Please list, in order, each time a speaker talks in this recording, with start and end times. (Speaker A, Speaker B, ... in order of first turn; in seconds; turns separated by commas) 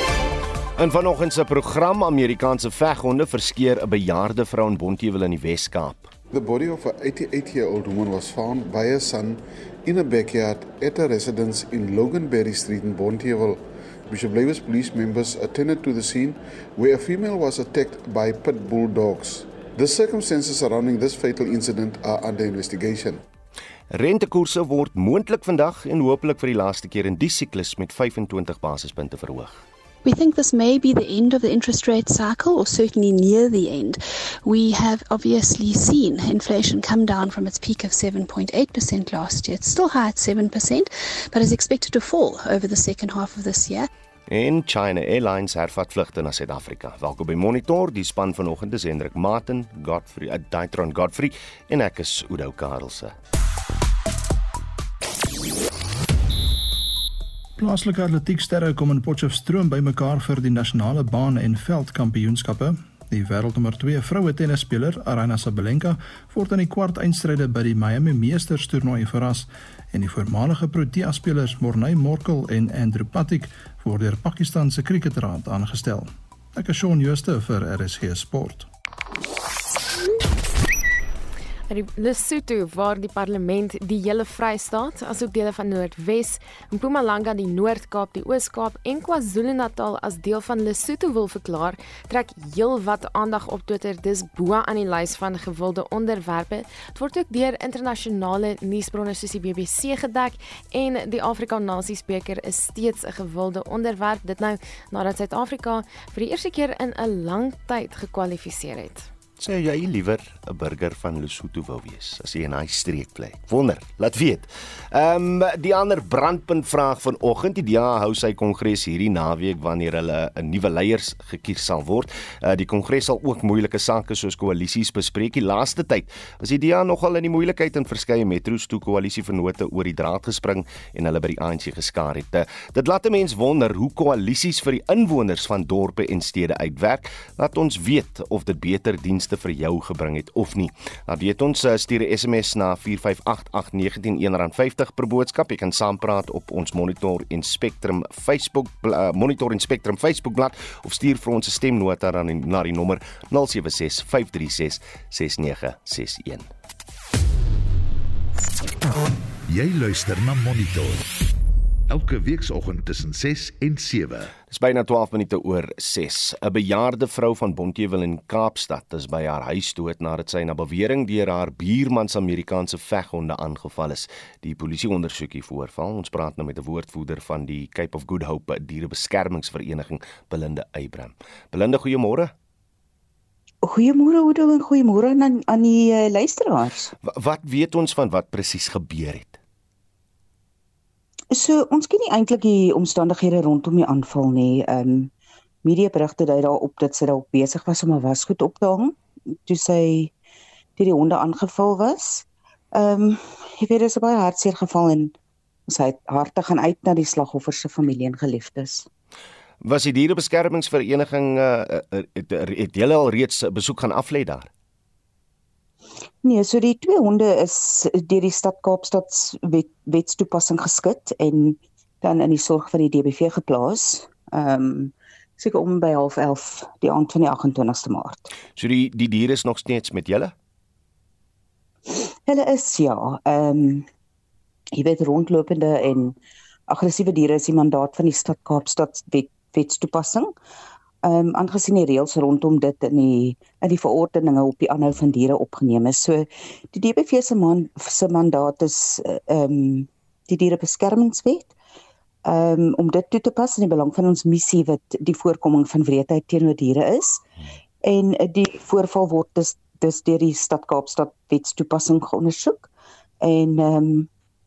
Speaker A: 0.8-6.1, Speaker B: 6.3-23.2, Speaker A: 23.9-29.6, Speaker C: 30.0-43.9, Speaker A: 44.3-53.1, Speaker D: 57.6-78.7, Speaker E: 81.7-109.1, Speaker A: 109.4-156.5, Speaker F: 159.5-161.1, Speaker F: 161.9-164.3, Speaker A: 164.5-182.3, Speaker G: 183.6-186.9, Speaker A: 187.0-189.4, Speaker G: 191.3-195.1, Speaker G: 195.6-200.1, Speaker G: 200.8-205.1, Speaker G: 205.7-208.9, Speaker A: 209.6-214.5, Speaker G: 216.2-228.3, Speaker A: 228.6-230.3, Speaker G: 231.9-233.8, Speaker G: 234.7-236.2, Speaker G: 236.7-240.3, Speaker G: 241.0-251.5, Speaker G: 252.2-257.2, Speaker G: 257.8-262.7, Speaker G: 263.2-264.1